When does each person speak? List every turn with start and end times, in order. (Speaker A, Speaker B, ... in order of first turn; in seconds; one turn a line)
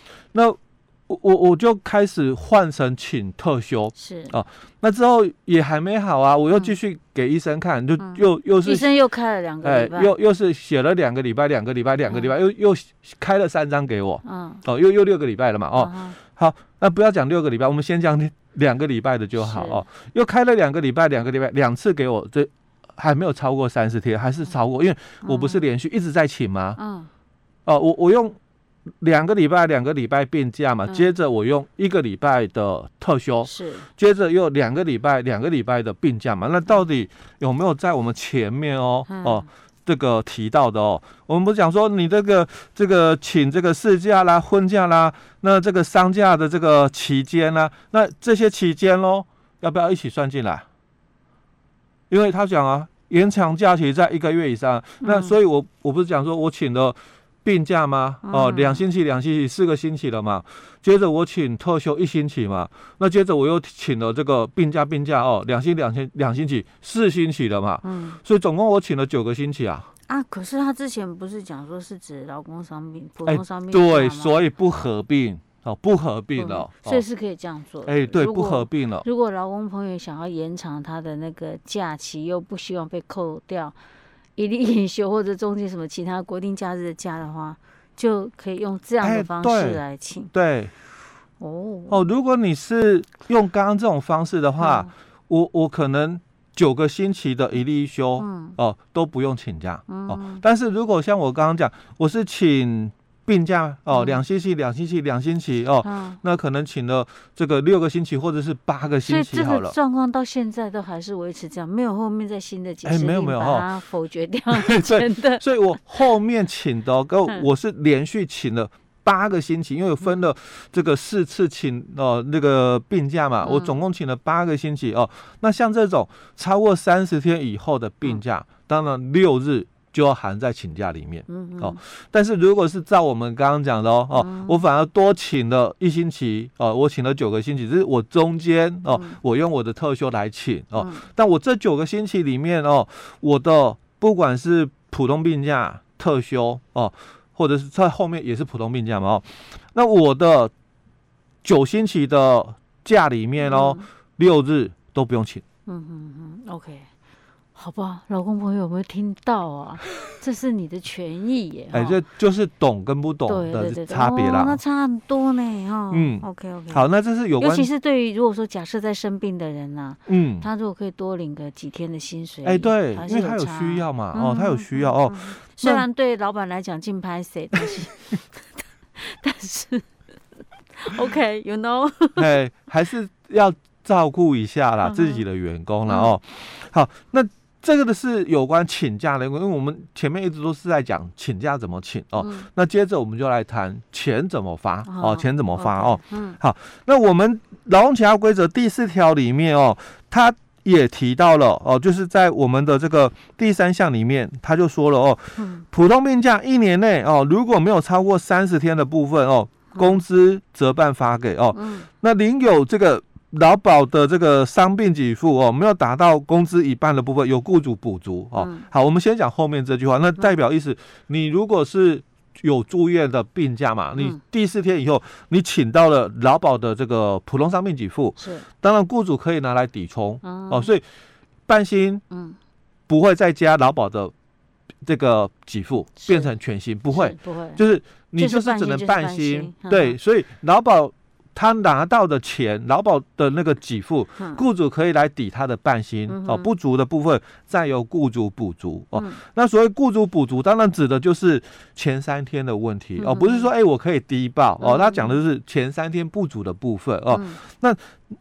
Speaker A: 0.3-8.9
Speaker B: 3.9-4.3
Speaker B: 8.0-10.1
Speaker A: 9.6-26.8
Speaker B: 14.2-14.6
Speaker B: 15.8-16.2
Speaker B: 19.4-19.8
Speaker B: 25.2-25.6
Speaker B: 26.8-27.1
Speaker A: 27.6-28.4
Speaker A: 29.0-50.6
Speaker B: 30.9-31.1
Speaker B: 33.4-33.9
Speaker B: 39.1-39.5
Speaker A: 52.1-69.9
Speaker B: 55.0-55.4
Speaker B: 58.2-58.8
Speaker B: 67.8-68.2
Speaker B: 70.1-74.5
Speaker A: 73.2-77.0
Speaker B: 76.3-83.8
Speaker A: 77.8-79.0
Speaker B: 84.4-90.3
Speaker A: 89.0-90.7
Speaker B: 91.4-92.0
Speaker A: 91.9-109.7
Speaker B: 94.6-94.9
Speaker B: 98.2-98.6
Speaker B: 99.9-100.4
Speaker B: 103.9-104.2
Speaker B: 105.8-106.2
Speaker B: 109.0-115.8
Speaker A: 112.8-113.7
Speaker A: 114.5-150.5
Speaker B: 123.4-123.8
Speaker B: 131.3-131.8
Speaker B: 134.2-134.6
Speaker B: 138.9-139.2
Speaker B: 140.8-141.1
Speaker A: 151.4-155.4
Speaker B: 153.4-153.8
Speaker B: 155.7-156.9
Speaker B: 157.5-162.0
Speaker A: 161.7-164.6
Speaker B: 163.3-166.8
Speaker A: 165.9-167.7
Speaker B: 167.4-178.4
Speaker A: 170.1-170.5
Speaker A: 172.4-175.8
Speaker B: 178.9-179.9
Speaker B: 180.8-182.3
Speaker A: 182.2-230.8
Speaker B: 184.8-185.2
Speaker B: 185.9-186.1
Speaker B: 192.2-192.5
Speaker B: 194.8-196.4
Speaker B: 205.4-205.6
Speaker B: 209.7-210.0
Speaker B: 211.5-211.9
Speaker B: 218.4-218.7
Speaker B: 228.2-228.5
Speaker B: 230.2-230.7
Speaker A: 231.5-232.0
Speaker B: 232.1-232.4
Speaker A: 232.9-234.1
Speaker A: 234.8-257.8
Speaker B: 236.0-236.3
Speaker B: 236.9-237.6
Speaker B: 238.2-240.0
Speaker B: 246.1-246.5
Speaker B: 253.0-253.5
Speaker B: 254.6-255.2
Speaker B: 257.1-257.4